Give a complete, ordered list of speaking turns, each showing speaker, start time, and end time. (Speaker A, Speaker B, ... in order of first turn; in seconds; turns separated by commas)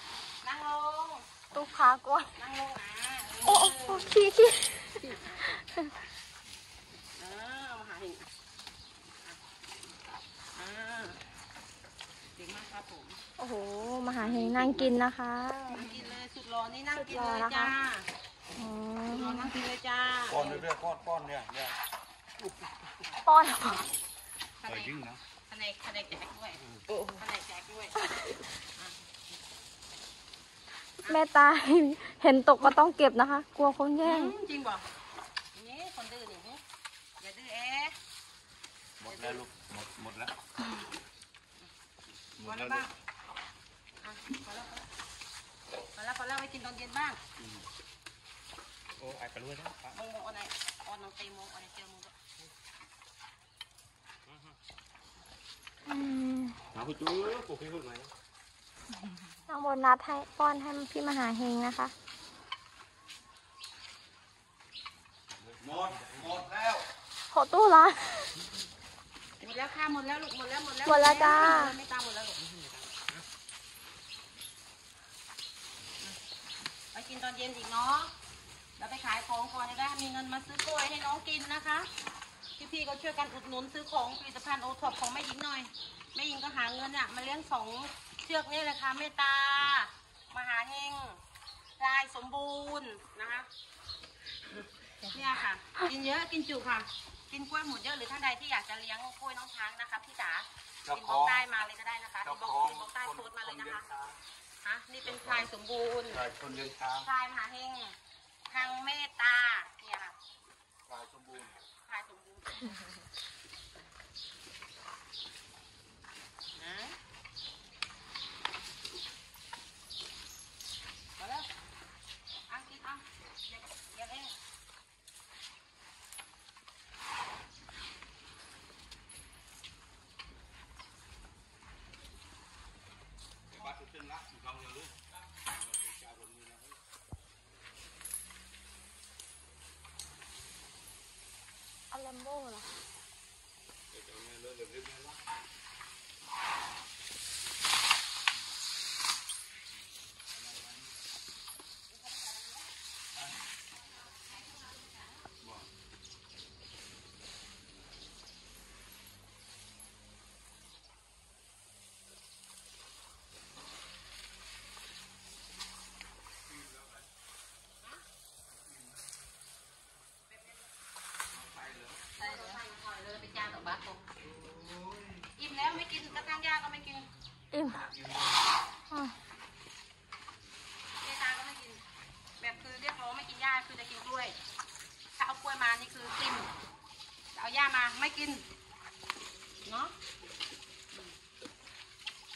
Speaker A: 0.4-1.3, Speaker B: 1.5-2.3, Speaker A: 2.3-4.2, Speaker B: 3.4-5.0, Speaker A: 5.0-5.5, Speaker B: 5.5-5.9, Speaker A: 7.2-8.3, Speaker A: 10.5-11.2, Speaker A: 12.3-13.2, Speaker B: 13.4-15.9, Speaker A: 14.2-14.9, Speaker A: 15.7-18.1, Speaker B: 16.9-17.7, Speaker B: 18.6-19.5, Speaker A: 19.2-20.6, Speaker C: 20.3-21.8, Speaker B: 23.2-23.9, Speaker A: 24.6-25.0, Speaker C: 24.7-25.2, Speaker A: 25.5-28.1, Speaker A: 28.8-29.1, Speaker B: 31.0-34.3, Speaker A: 34.0-34.9, Speaker A: 35.5-36.6, Speaker A: 37.2-37.9, Speaker C: 39.0-40.3, Speaker A: 39.0-39.4, Speaker C: 42.4-42.9, Speaker A: 42.4-42.9, Speaker A: 44.0-44.9, Speaker A: 45.9-47.2, Speaker C: 49.0-49.8, Speaker A: 49.8-52.1, Speaker B: 55.9-56.6, Speaker C: 56.7-58.1, Speaker B: 59.5-61.9, Speaker C: 65.6-66.8, Speaker B: 67.3-68.4, Speaker A: 69.4-72.4, Speaker B: 70.8-71.8, Speaker A: 76.9-78.1, Speaker A: 78.8-81.9, Speaker A: 82.6-91.2, Speaker A: 91.8-93.5, Speaker A: 95.0-103.9, Speaker C: 100.9-101.4, Speaker C: 102.2-104.2, Speaker A: 104.6-106.2, Speaker C: 105.0-105.5, Speaker C: 106.1-107.1, Speaker A: 107.0-108.0, Speaker A: 108.5-110.1, Speaker C: 110.9-111.5, Speaker A: 111.8-112.8, Speaker A: 116.5-117.0, Speaker A: 121.2-121.5, Speaker A: 122.5-124.3, Speaker C: 133.5-136.8, Speaker B: 141.9-142.7, Speaker C: 143.9-145.2, Speaker A: 151.9-152.7, Speaker C: 166.5-167.0, Speaker A: 170.3-170.7, Speaker C: 171.3-172.1, Speaker A: 172.2-174.0, Speaker B: 172.2-172.6, Speaker C: 174.2-175.3, Speaker A: 175.3-177.1, Speaker B: 177.5-177.9, Speaker C: 177.8-178.4, Speaker A: 181.0-181.8, Speaker A: 182.4-184.4, Speaker A: 185.1-186.5, Speaker A: 187.3-188.4, Speaker A: 189.6-189.9